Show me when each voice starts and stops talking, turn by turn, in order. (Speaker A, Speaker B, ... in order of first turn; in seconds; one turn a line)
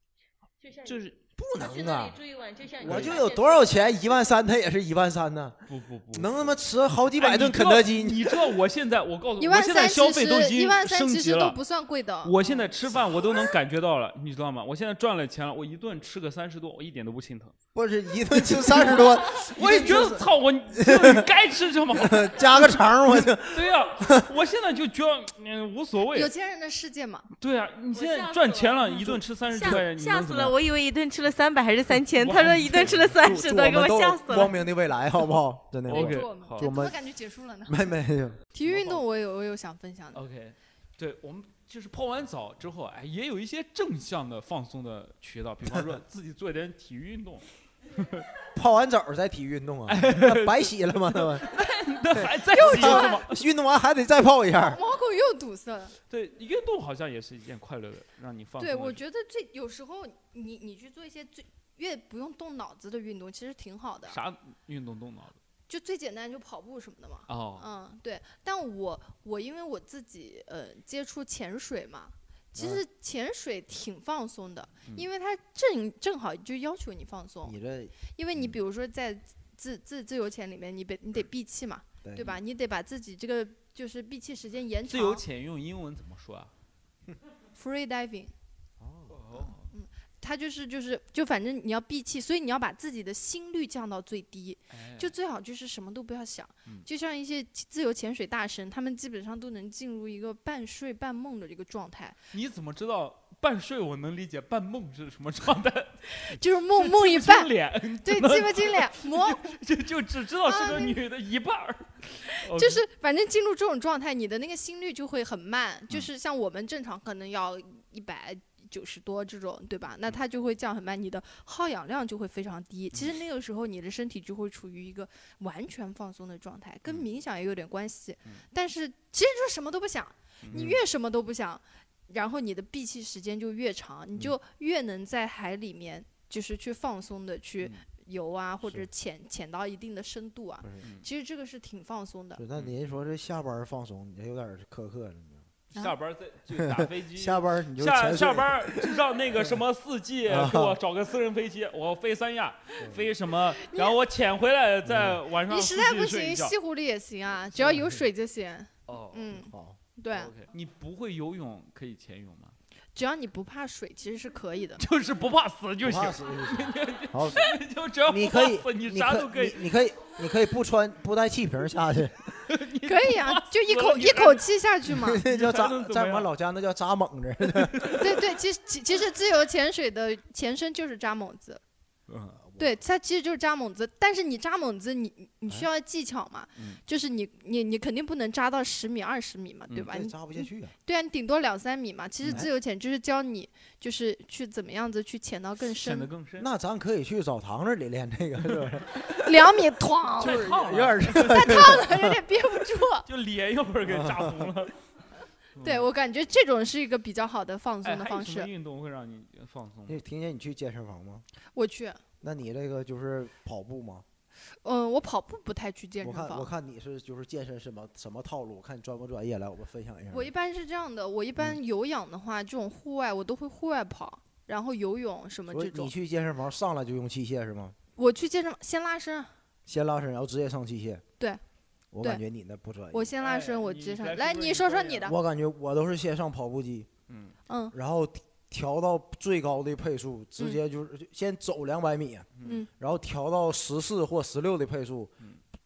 Speaker A: 0.6-3.9
Speaker B: 0.8-1.1
Speaker C: 1.4-2.2
Speaker B: 2.8-3.3
Speaker C: 2.8-5.6
Speaker B: 5.7-6.6
Speaker C: 6.1-8.6
Speaker B: 7.1-11.6
Speaker D: 9.4-12.3
Speaker B: 12.2-17.5
Speaker C: 17.7-21.3
Speaker B: 18.4-22.7
Speaker C: 21.9-24.3
Speaker B: 23.4-26.3
Speaker D: 26.1-27.3
Speaker B: 27.4-30.6
Speaker A: 27.9-34.5
Speaker B: 32.0-33.1
Speaker C: 33.1-37.0
Speaker B: 35.9-36.7
Speaker D: 35.9-38.0
Speaker C: 37.7-38.4
Speaker D: 38.5-40.2
Speaker B: 38.6-39.0
Speaker B: 40.1-48.2
Speaker C: 48.5-54.8
Speaker B: 49.9-53.4
Speaker D: 52.5-53.2
Speaker D: 54.7-56.0
Speaker B: 56.1-59.0
Speaker D: 58.6-64.2
Speaker B: 64.1-65.4
Speaker D: 65.7-77.5
Speaker B: 67.3-67.7
Speaker C: 72.5-72.8
Speaker C: 77.4-78.5
Speaker D: 78.1-85.2
Speaker C: 82.0-82.4
Speaker B: 84.9-86.5
Speaker D: 87.5-88.3
Speaker B: 89.1-89.7
Speaker D: 89.3-102.2
Speaker B: 94.7-95.1
Speaker B: 102.3-112.8
Speaker D: 106.1-109.5
Speaker D: 110.4-111.0
Speaker D: 112.3-142.4
Speaker B: 130.4-130.7
Speaker C: 130.5-130.8
Speaker C: 142.4-145.4
Speaker B: 145.7-156.5
Speaker C: 146.5-149.6
Speaker C: 150.3-150.8
Speaker C: 152.8-153.1
Speaker D: 153.6-153.9
Speaker C: 154.8-155.2
Speaker D: 155.5-160.3
Speaker C: 157.6-158.0
Speaker B: 158.9-159.3
Speaker C: 159.3-159.8
Speaker B: 160.1-162.5
Speaker D: 162.9-164.8
Speaker B: 164.8-169.6
Speaker C: 165.8-167.5
Speaker C: 168.1-172.4
Speaker B: 172.4-174.5
Speaker D: 172.8-175.2
Speaker C: 174.9-178.0
Speaker B: 175.2-176.3
Speaker B: 177.5-178.1
Speaker D: 178.0-181.6
Speaker B: 182.1-182.4
Speaker C: 182.4-182.7
Speaker D: 182.6-196.1
Speaker C: 189.8-190.7
Speaker B: 195.8-196.5
Speaker C: 196.4-199.1
Speaker D: 199.1-200.4
Speaker B: 200.2-201.8
Speaker C: 200.2-202.2
Speaker D: 201.1-203.1
Speaker B: 203.0-204.7
Speaker C: 203.8-204.6
Speaker B: 205.6-205.9
Speaker D: 205.6-208.5
Speaker B: 207.8-210.0
Speaker C: 209.9-211.2
Speaker D: 211.5-212.0
Speaker C: 212.2-214.0
Speaker D: 214.6-216.5
Speaker C: 216.0-220.3
Speaker D: 220.1-225.9
Speaker C: 225.5-227.8
Speaker D: 227.9-229.3
Speaker C: 229.7-231.0
Speaker C: 231.9-233.1
Speaker D: 232.9-235.2
Speaker B: 233.2-235.1
Speaker C: 235.1-236.9
Speaker B: 237.1-237.3
Speaker D: 237.5-237.7
Speaker C: 237.7-245.1
Speaker B: 242.3-242.6
Speaker D: 242.4-242.7